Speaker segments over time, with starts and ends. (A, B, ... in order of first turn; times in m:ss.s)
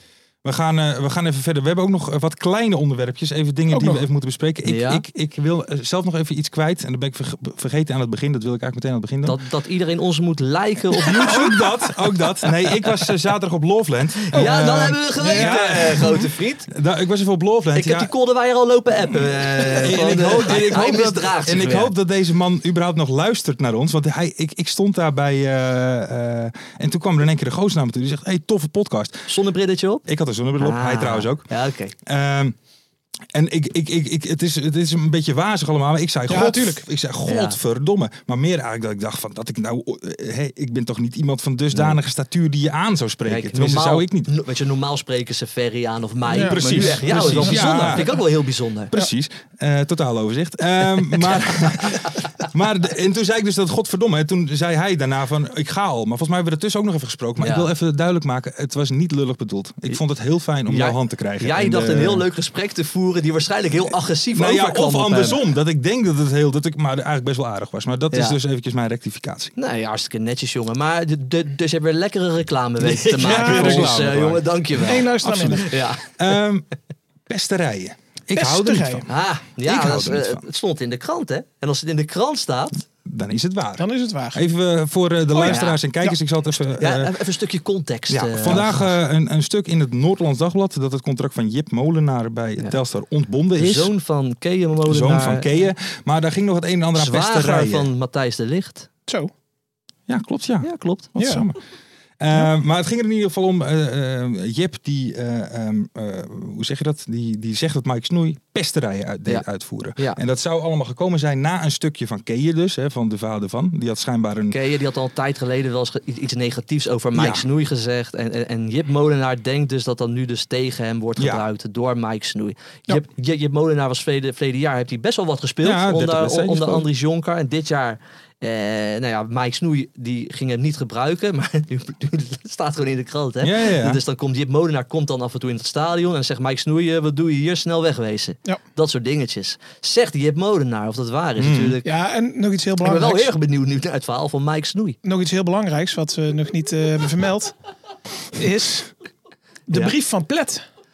0:00.4-0:09.4 A
0:03.7-0:04.0 B
0:04.6-0:05.0 C
0:09.2-0:11.6 C
0:11.0-0:18.1 A
0:14.3-0:16.7 C
0:14.4-0:14.6 B
0:15.2-0:16.2 B
0:17.7-0:21.9 C
0:19.0-0:29.3 A
0:29.3-0:30.0 C
0:30.0-0:31.5 A
0:30.6-0:31.9 C
0:32.0-0:32.5 A
0:33.3-0:44.3 A
0:36.3-0:36.8 B
0:37.2-0:37.6 C
0:41.7-0:42.0 C
0:43.2-0:48.9 C
0:46.3-0:48.1 B
0:46.4-0:48.1 A
0:48.9-1:02.2 A
0:57.4-0:57.7 C
1:00.7-1:05.4 C
1:04.3-1:09.5 A
1:08.1-1:08.4 C
1:09.6-1:16.1 C
1:12.8-1:16.7 A
1:13.2-1:14.0 B
1:14.9-1:15.7 B
1:17.3-1:20.4 A
1:18.3-1:19.0 B
1:19.1-1:22.8 C
1:23.0-1:27.1 A
1:23.8-1:24.4 B
1:25.4-1:26.2 B
1:25.4-1:25.8 C
1:26.8-1:29.0 C
1:28.1-1:33.9 A
1:33.6-1:35.5 C
1:34.8-1:37.9 A
1:36.9-1:38.9 C
1:40.1-1:41.6 A
1:40.6-1:41.1 C
1:41.2-1:41.5 B
1:42.2-1:54.6 A
1:49.2-1:50.2 C
1:54.5-2:21.8 C
1:57.1-1:57.4 A
2:01.2-2:01.4 A
2:05.6-2:06.9 A
2:13.4-2:14.0 A
2:21.4-2:21.8 A
2:21.8-2:23.3 B
2:22.8-2:25.0 C
2:25.0-2:27.6 B
2:28.3-2:28.9 B
2:29.7-2:30.6 B